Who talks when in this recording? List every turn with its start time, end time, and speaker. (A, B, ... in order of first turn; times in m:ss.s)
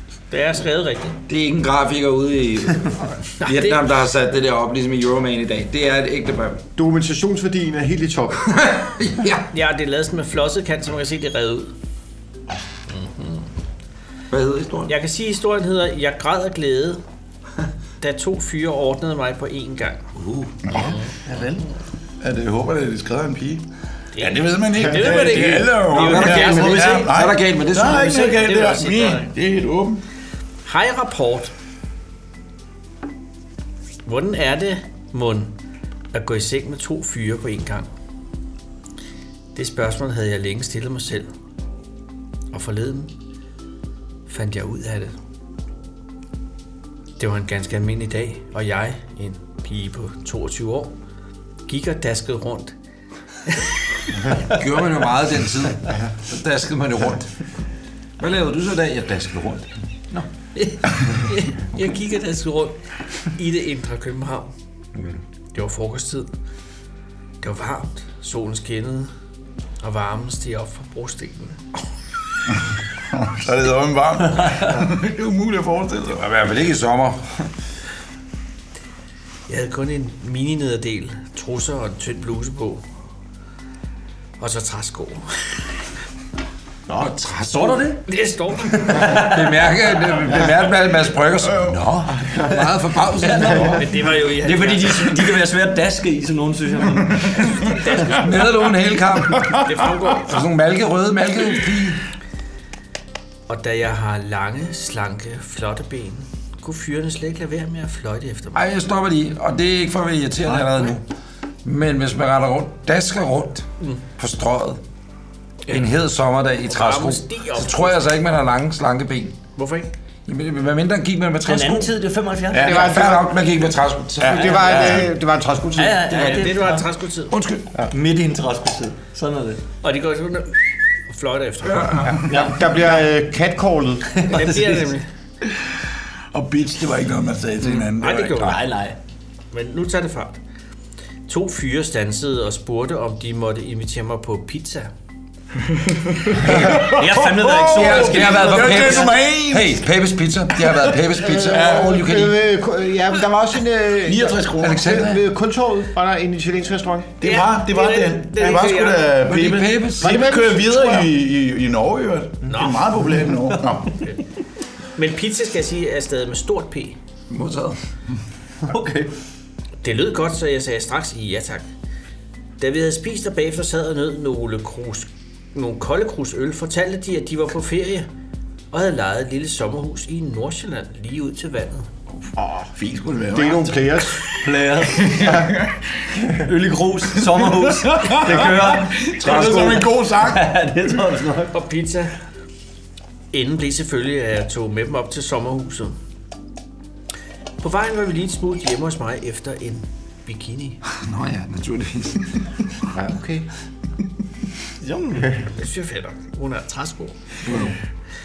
0:00.3-0:01.2 A
0:01.3-0:06.6 B
0:03.4-0:03.8 A
0:06.8-0:08.5 C
0:08.5-0:09.5 B
0:09.5-0:11.7 A
0:12.9-0:13.4 A
0:14.3-0:14.9 B
0:14.9-0:17.0 A
0:18.0-0:20.0 A
0:20.2-0:20.5 B
0:20.7-0:21.7 D
0:20.7-0:21.0 A
0:22.2-0:30.0 E
0:24.1-0:27.0 A
0:24.9-0:25.3 C
0:25.9-0:28.1 B
0:26.1-0:27.1 D
0:28.0-0:29.3 A
0:30.6-0:31.5 A
0:34.0-0:35.5 A
0:36.1-0:37.9 A
0:39.5-0:41.3 A
0:42.5-0:43.1 A
0:44.3-0:45.1 A
0:47.2-0:50.9 A
0:51.6-0:52.7 A
0:53.5-0:53.8 A
0:54.4-0:57.3 B
0:58.2-1:00.2 B
1:00.5-1:04.5 A
1:04.9-1:05.2 B
1:05.5-1:06.3 A
1:07.4-1:09.1 A
1:09.8-1:11.6 A
1:13.1-1:16.3 E
1:16.2-1:17.2 B
1:19.5-1:22.8 A
1:24.4-1:25.6 A
1:26.9-1:28.0 D
1:27.0-1:27.9 B
1:28.0-1:29.2 A
1:28.9-1:29.4 D
1:29.0-1:33.8 B
1:31.5-1:32.2 E
1:33.2-1:37.5 D
1:33.6-1:35.1 A
1:37.4-1:38.4 A
1:38.1-1:39.6 B
1:39.5-1:40.4 A
1:40.2-1:42.0 B
1:43.5-1:48.6 A
1:48.5-1:51.0 B
1:51.6-1:54.8 B
1:55.7-1:59.4 B
1:56.7-1:58.1 A
1:59.6-1:59.9 A
2:00.3-2:01.9 B
2:01.4-2:03.0 D
2:02.5-2:03.0 E
2:02.5-2:05.1 B
2:02.6-2:03.3 C
2:04.2-2:06.3 C
2:04.2-2:05.0 E
2:05.7-2:06.8 D
2:06.1-2:07.3 A
2:07.3-2:07.7 B
2:07.9-2:09.6 D
2:09.8-2:12.1 A
2:12.0-2:12.5 E
2:12.3-2:12.6 D
2:12.3-2:14.3 C
2:14.2-2:14.8 D
2:14.3-2:15.1 A
2:16.3-2:18.6 E
2:18.0-2:18.6 A
2:18.4-2:19.0 D
2:19.5-2:20.4 A
2:21.3-2:24.9 A
2:26.3-2:29.8 E
2:26.4-2:27.0 B
2:26.6-2:29.2 D
2:27.6-2:32.5 B
2:31.2-2:37.1 C
2:31.4-2:32.2 E
2:34.0-2:35.0 E
2:34.6-2:35.2 B
2:37.2-2:44.0 E
2:37.2-2:39.2 A
2:39.2-2:40.2 B
2:40.0-2:41.1 C
2:42.5-2:42.9 A
2:45.0-2:47.0 A
2:47.3-2:47.8 B
2:48.6-2:49.1 D
2:49.8-2:51.7 A
2:52.6-2:58.1 A
2:58.7-3:01.9 A
3:02.4-3:02.6 C
3:02.6-3:04.1 E
3:03.3-3:04.3 C
3:04.3-3:05.2 D
3:05.0-3:05.8 E
3:05.2-3:05.5 C
3:06.4-3:11.5 D
3:07.2-3:10.5 E
3:09.3-3:09.7 B
3:11.5-3:12.1 A
3:13.3-3:16.0 A
3:17.6-3:20.8 A
3:21.0-3:22.6 B
3:22.9-3:23.5 C
3:24.8-3:25.4 D
3:25.5-3:27.2 A